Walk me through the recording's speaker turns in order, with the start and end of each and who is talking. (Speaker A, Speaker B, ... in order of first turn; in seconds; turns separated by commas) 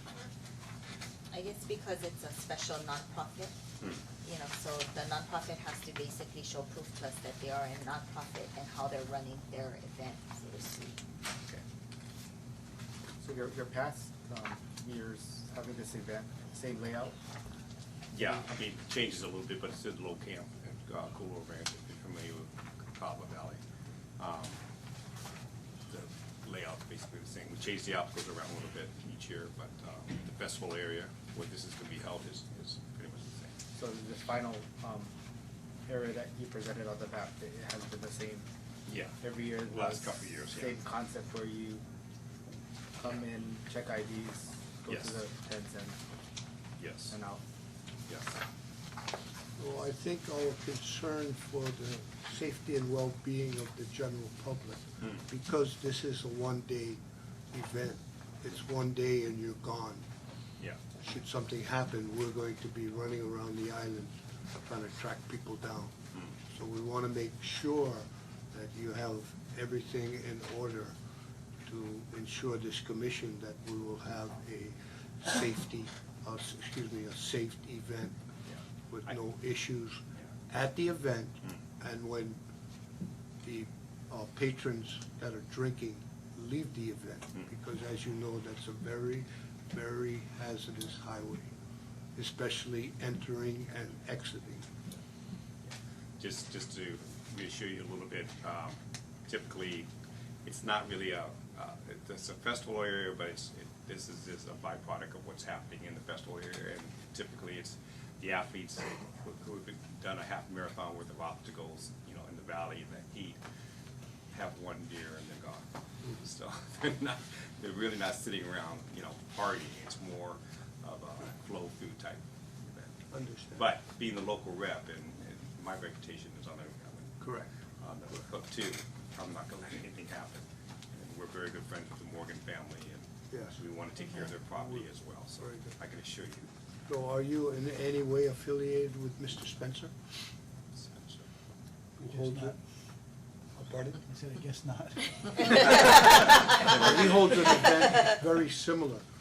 Speaker A: 1.3-3.5, Speaker A: 4.2-11.0, Speaker B: 13.2-17.1, Speaker C: 18.1-23.6, Speaker C: 24.2-24.6, Speaker C: 25.9-33.5, Speaker B: 33.7-35.1, Speaker B: 35.9-38.5, Speaker C: 38.9-40.8, Speaker B: 39.2-41.8, Speaker B: 43.0-46.0, Speaker C: 44.9-45.2, Speaker C: 46.8-47.2, Speaker B: 47.1-47.4, Speaker D: 49.6-60.0, Speaker D: 61.0-64.1, Speaker D: 64.6-65.9, Speaker D: 66.5-70.9, Speaker D: 71.7-78.2, Speaker C: 78.5-79.1, Speaker D: 78.9-82.4, Speaker D: 83.4-91.5, Speaker D: 92.2-94.7, Speaker C: 95.6-99.9, Speaker C: 100.4-113.4, Speaker C: 114.3-127.2, Speaker D: 123.1-123.6, Speaker D: 127.2-127.5, Speaker C: 127.8-136.5, Speaker D: 133.3-133.6, Speaker D: 134.5-134.9, Speaker D: 135.4-135.8, Speaker D: 136.8-139.9, Speaker C: 140.7-141.3, Speaker D: 142.0-142.6, Speaker E: 142.1-142.5, Speaker D: 143.5-144.0, Speaker E: 144.1-146.1, Speaker D: 146.5-149.0, Speaker C: 146.7-147.0